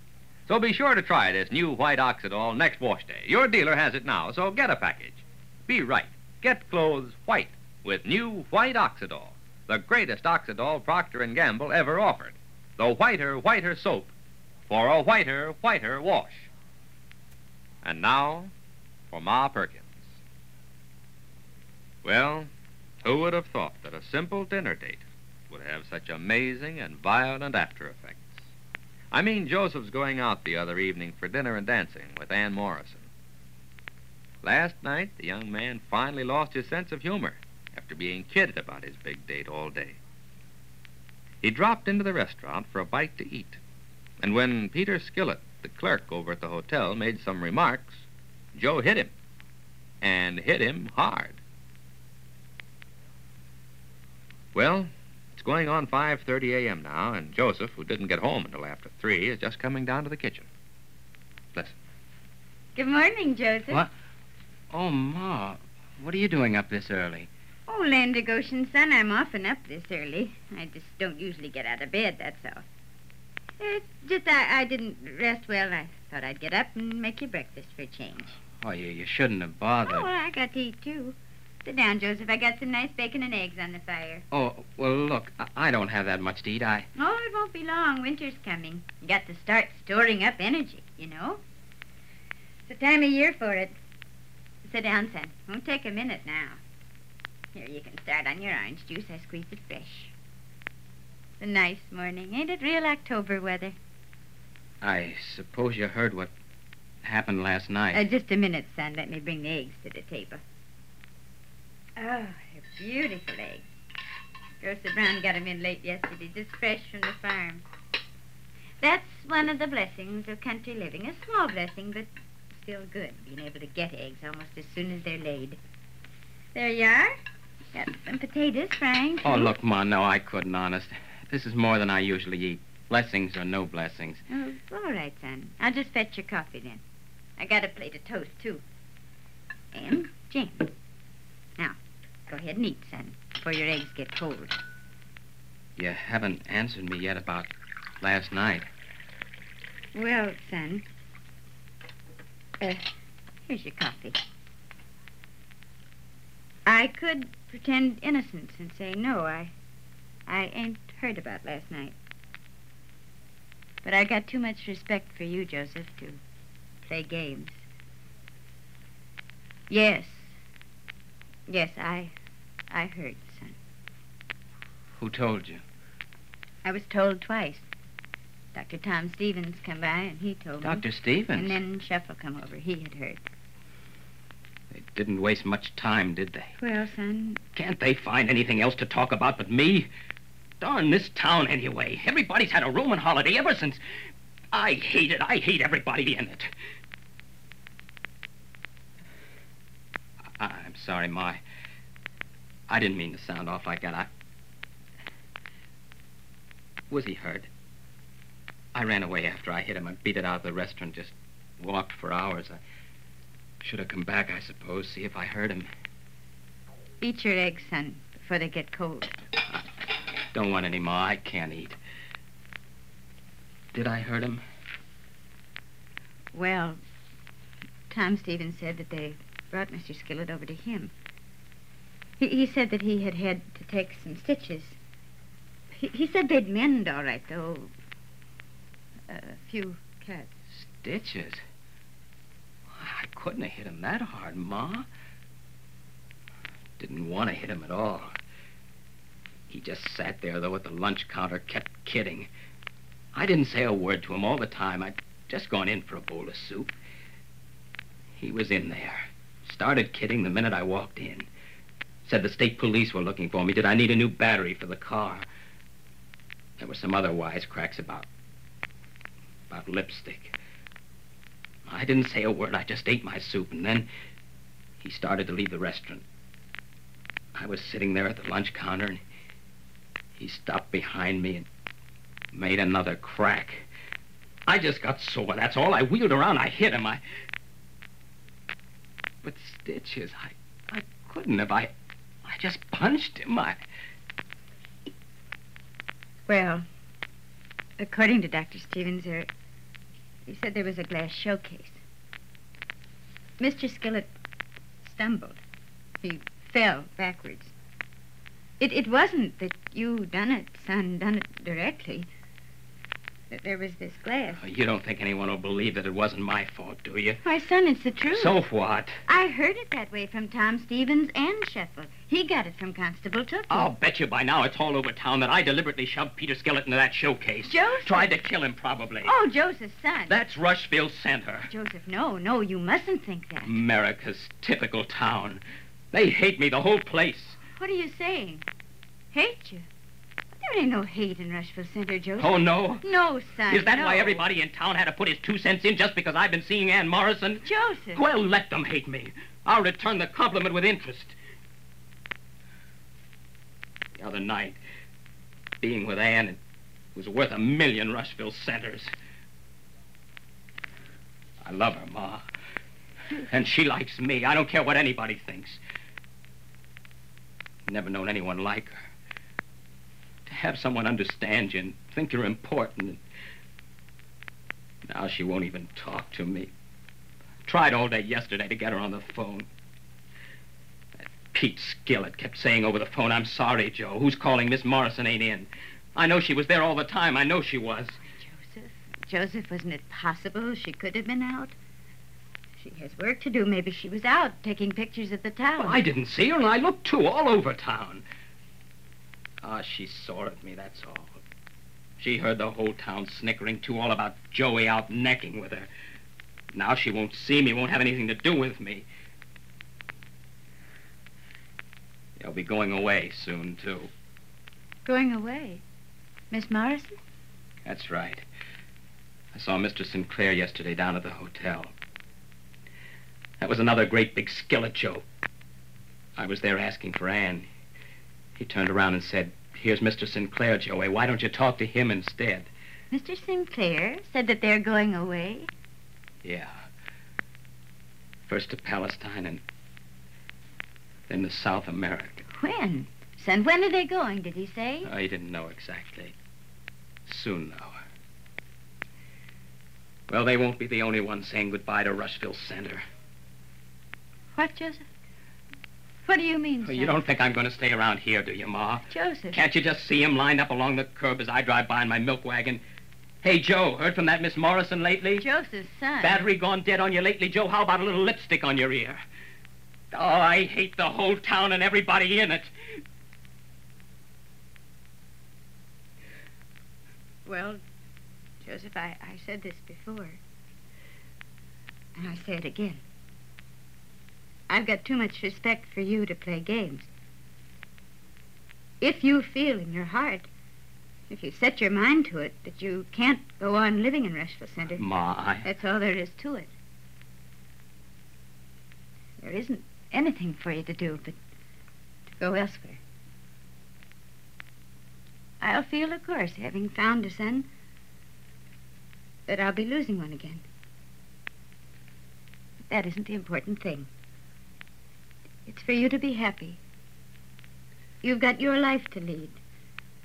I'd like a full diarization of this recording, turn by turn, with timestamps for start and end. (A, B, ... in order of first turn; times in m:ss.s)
0:00.4-0:14.1 A
0:14.7-0:16.5 A
0:17.8-0:18.5 A
0:19.1-0:20.0 A
0:22.0-0:22.5 A
0:23.0-0:28.4 A
0:29.1-0:33.0 A
0:34.4-0:40.0 A
0:41.4-0:43.6 A
0:44.2-0:49.1 A
0:50.0-0:51.4 A
0:54.5-1:00.5 A
1:02.8-1:03.8 B
1:04.7-1:07.3 C
1:07.7-1:12.6 B
1:13.6-1:18.3 B
1:18.6-1:20.1 C
1:19.8-1:24.2 B
1:24.3-1:26.9 C
1:26.9-1:31.4 B
1:32.7-1:33.7 B
1:34.6-1:36.6 B
1:37.5-1:40.1 B
1:41.4-1:43.8 B
1:44.8-1:46.3 C
1:47.0-1:48.0 C
1:47.9-1:50.4 B
1:52.0-1:53.6 B
1:54.6-1:57.6 B
1:58.8-2:05.6 B
2:06.5-2:07.1 B
2:07.7-2:09.5 B
2:09.2-2:14.2 C
2:14.3-2:16.8 B
2:17.4-2:18.6 B
2:19.7-2:20.7 B
2:22.3-2:24.6 B
2:25.8-2:27.5 C
2:28.0-2:28.7 C
2:29.9-2:30.8 B
2:32.6-2:32.8 B
2:33.5-2:34.2 B
2:36.6-2:39.5 B
2:40.3-2:42.0 B
2:43.8-2:46.2 B
2:46.8-2:47.6 B
2:49.7-2:50.4 B
2:51.5-2:52.1 B
2:52.7-2:53.6 B
2:55.0-2:55.6 C
2:56.6-2:57.7 B
2:58.5-3:03.2 B
3:00.6-3:01.6 C
3:04.7-3:06.6 C
3:06.6-3:07.4 B
3:07.5-3:09.9 C
3:10.6-3:13.8 C
3:14.5-3:16.5 C
3:20.4-3:21.4 C
3:22.7-3:24.1 C
3:26.9-3:27.5 C
3:28.7-3:32.6 C
3:33.6-3:35.7 C
3:37.0-3:39.2 B
3:40.3-3:41.8 C
3:43.7-3:44.4 C
3:46.3-3:46.8 B
3:47.9-3:50.9 B
3:52.2-3:54.8 B
3:55.7-3:57.7 B
3:59.1-4:00.3 B
4:00.5-4:01.4 C
4:02.7-4:04.8 C
4:06.8-4:08.1 C
4:09.5-4:12.3 C
4:13.1-4:16.7 C
4:18.2-4:21.3 C
4:22.0-4:25.2 C
4:26.6-4:28.1 C
4:29.5-4:30.3 C
4:31.7-4:33.9 C
4:34.8-4:36.0 C
4:37.3-4:39.0 C
4:40.2-4:41.4 C
4:42.3-4:43.6 C
4:44.5-4:47.0 C
4:49.2-4:51.7 C
4:52.2-4:53.6 C
4:56.3-4:56.6 B
4:57.8-4:59.3 B
5:00.3-5:01.8 B
5:03.4-5:04.1 B
5:04.8-5:05.4 B
5:06.0-5:07.5 B
5:08.6-5:12.1 B
5:13.3-5:14.4 B
5:14.4-5:17.2 C
5:17.2-5:18.4 B
5:18.1-5:18.9 C
5:19.1-5:23.7 B
5:23.5-5:29.1 C
5:27.4-5:28.2 B
5:29.0-5:30.2 B
5:30.1-5:31.5 C
5:31.5-5:33.5 B
5:33.4-5:37.4 C
5:37.5-5:38.4 B
5:39.1-5:39.7 B
5:40.4-5:44.2 B
5:42.2-5:42.8 C
5:43.5-5:51.2 C
5:47.4-5:48.0 B
5:54.0-5:54.6 C
5:55.6-5:56.4 C
5:56.9-5:58.9 C
6:01.4-6:02.2 C
6:03.1-6:05.6 C
6:07.7-6:08.8 C
6:10.3-6:13.0 C
6:14.9-6:16.5 C
6:17.4-6:19.5 C
6:21.3-6:28.0 C
6:28.1-6:31.5 B
6:32.6-6:35.8 B
6:35.6-6:38.0 C
6:39.4-6:41.2 C
6:42.0-6:45.7 C
6:46.5-6:48.8 C
6:52.2-6:53.9 C
6:54.8-6:55.6 B
6:56.3-6:57.0 B
6:57.6-6:58.2 C
6:59.3-7:01.7 C
7:03.4-7:05.0 C
7:06.2-7:07.5 C
7:08.4-7:12.5 C
7:12.9-7:15.5 B
7:16.2-7:16.6 C
7:18.3-7:19.4 C
7:21.1-7:22.2 C
7:22.3-7:24.9 B
7:24.8-7:26.1 C
7:27.0-7:27.7 C
7:30.1-7:32.8 C
7:34.3-7:34.8 B
7:36.0-7:37.0 B
7:36.6-7:42.6 C
7:38.9-7:39.4 B
7:43.2-7:45.2 C
7:45.2-7:46.3 B
7:46.0-7:49.0 C
7:49.9-7:52.5 C
7:57.2-7:57.6 B
7:58.4-8:00.2 B
8:02.0-8:02.8 B
8:04.5-8:06.9 B
8:08.8-8:10.3 B
8:11.1-8:14.8 B
8:14.7-8:15.5 C
8:15.4-8:16.5 B
8:19.2-8:21.2 B
8:22.2-8:22.8 B
8:25.4-8:27.5 B
8:29.3-8:30.4 B
8:32.7-8:33.9 B
8:35.4-8:36.6 B
8:38.0-8:39.4 B